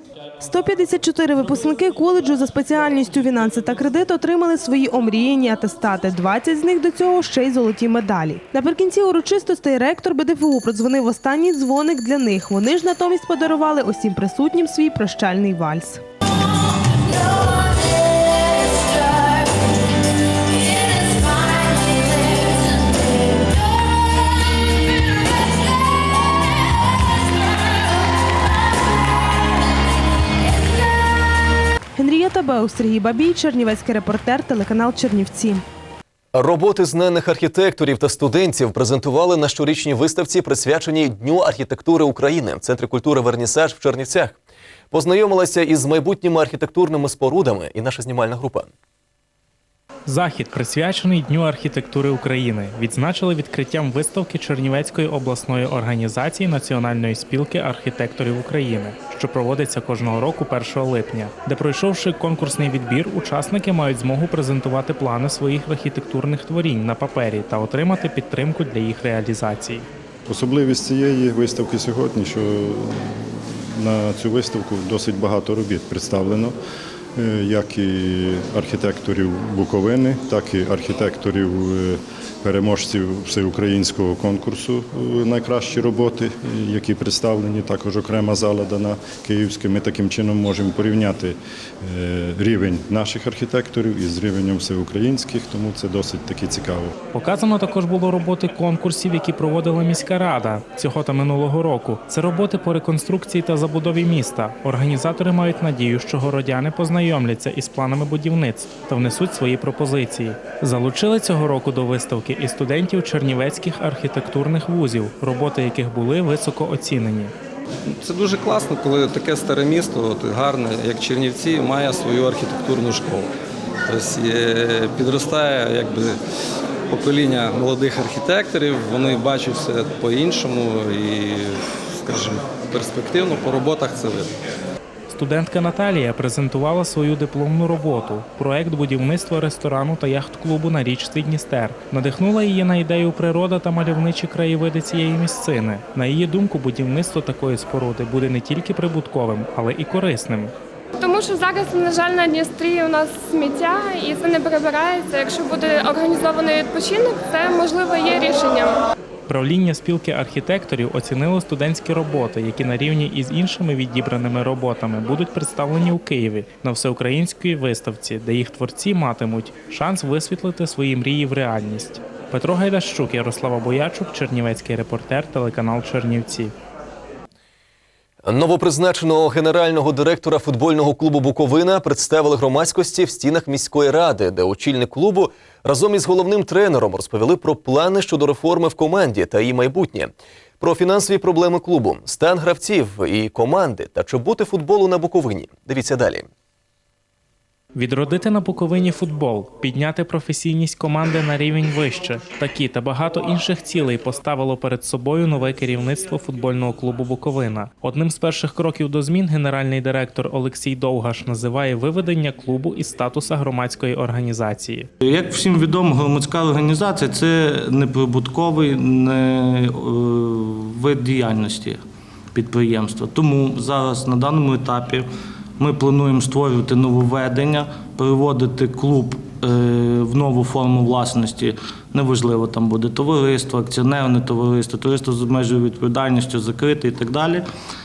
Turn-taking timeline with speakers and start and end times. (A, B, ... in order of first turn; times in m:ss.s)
0:00.4-0:16.0 A
0:32.0-0:35.6 A
0:36.3-0:44.4 B
0:44.9-0:48.7 B
0:50.1-1:09.9 C
1:10.2-1:16.6 D
1:17.2-1:36.9 D
1:37.1-1:57.3 C
1:57.9-2:03.3 E
2:03.9-2:06.2 E
2:06.9-2:14.3 E
2:15.1-2:30.5 C
2:31.0-2:38.8 F
2:39.3-2:56.5 C
2:58.2-3:16.3 B
3:17.7-3:34.9 C
3:35.0-3:41.8 G
3:42.3-3:45.1 G
3:45.6-3:57.4 G